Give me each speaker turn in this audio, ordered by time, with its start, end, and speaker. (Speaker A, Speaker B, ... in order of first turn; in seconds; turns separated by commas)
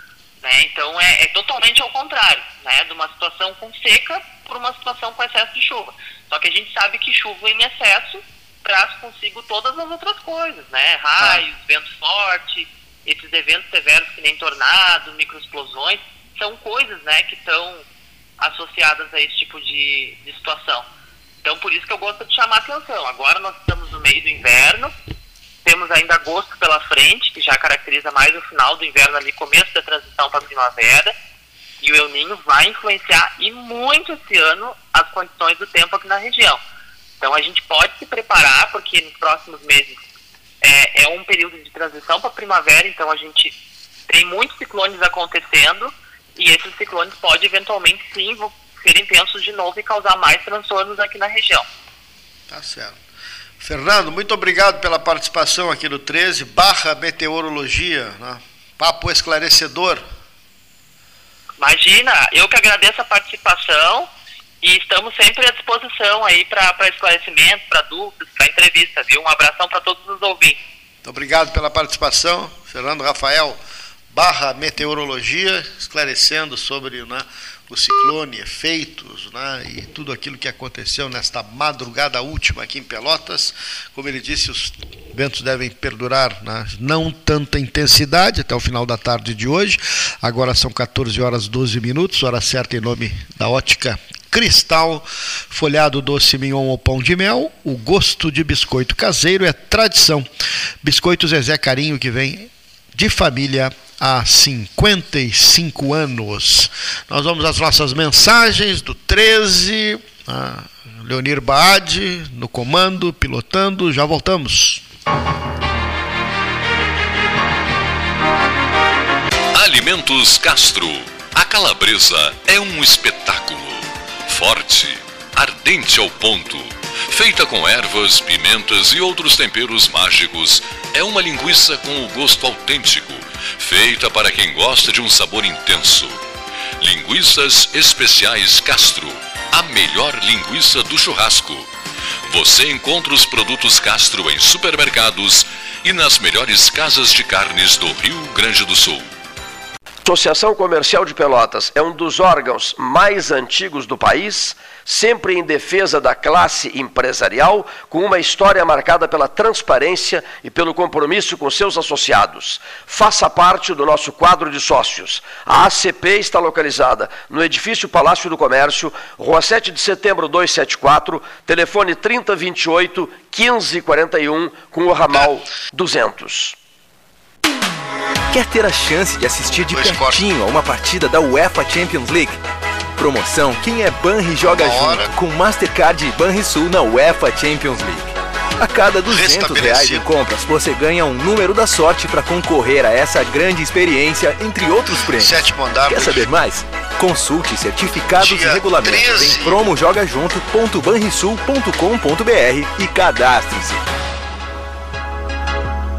Speaker A: 0.4-17.9, Speaker A: 18.4-20.9, Speaker A: 21.4-24.9, Speaker A: 25.6-31.1, Speaker A: 31.8-36.6, Speaker A: 37.2-40.0, Speaker A: 40.6-43.5, Speaker A: 44.1-51.7, Speaker B: 52.5-53.0, Speaker B: 53.6-60.0, Speaker A: 61.6-64.1, Speaker A: 64.6-70.6, Speaker B: 71.0-73.6, Speaker B: 74.1-100.3, Speaker B: 100.8-114.8, Speaker C: 119.5-136.2, Speaker C: 136.8-141.7, Speaker C: 142.3-149.1, Speaker D: 150.0-176.6, Speaker E: 178.3-182.4, Speaker B: 179.4-180.2, Speaker E: 183.0-203.8, Speaker B: 184.4-185.1, Speaker B: 189.1-190.1, Speaker B: 195.1-196.3, Speaker B: 198.2-199.7